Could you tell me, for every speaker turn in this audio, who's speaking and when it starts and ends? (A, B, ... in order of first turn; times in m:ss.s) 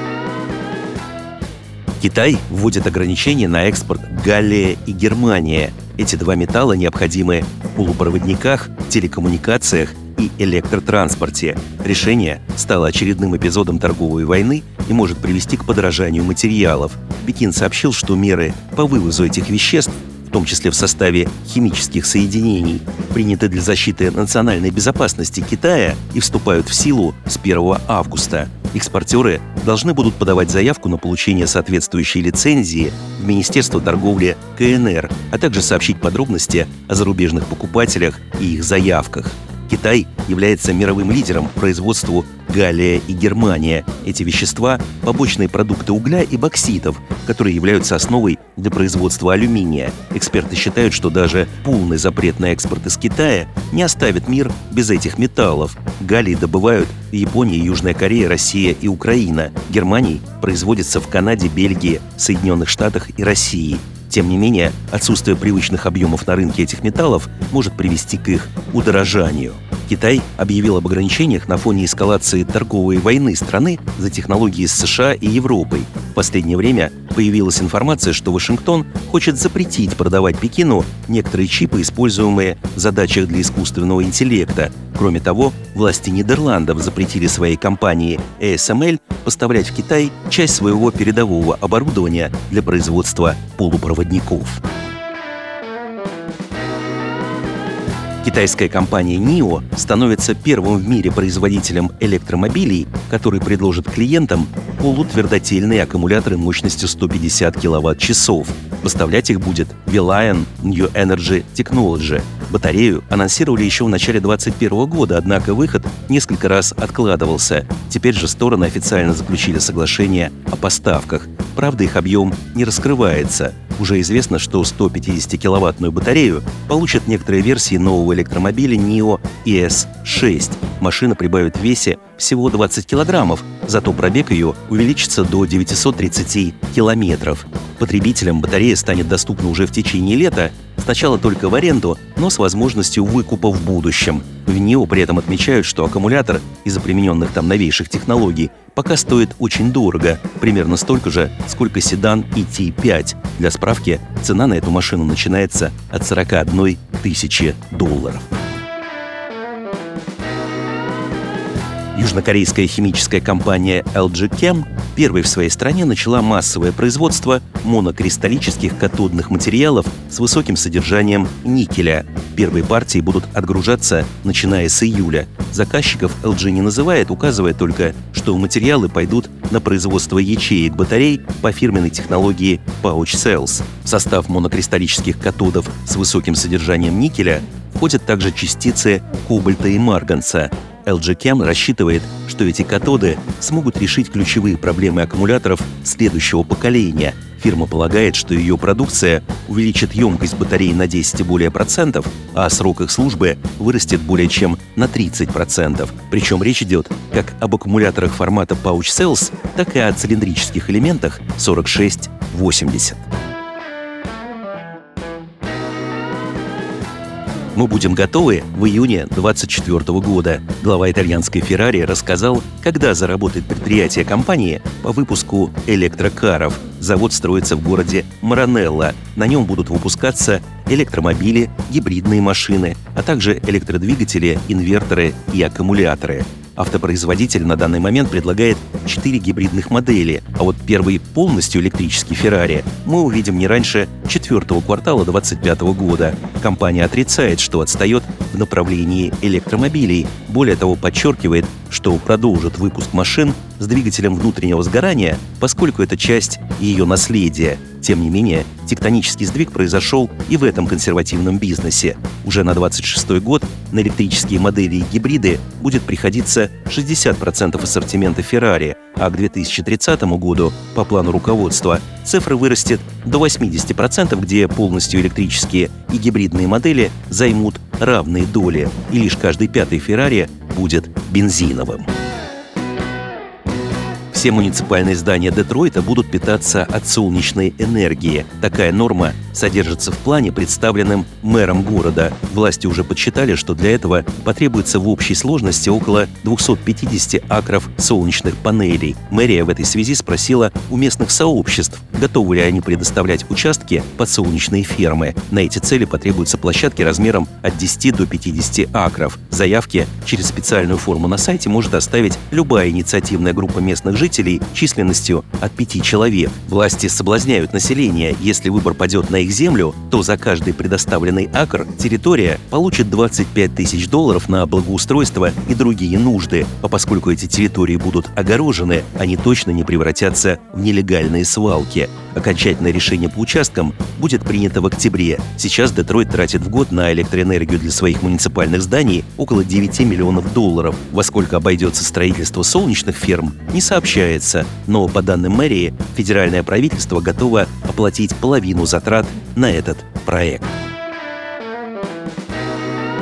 0:02.0-1:34.6 A
1:38.2-2:38.3 A
2:41.9-3:33.0 A
3:37.5-4:41.9 A
4:44.1-5:50.5 A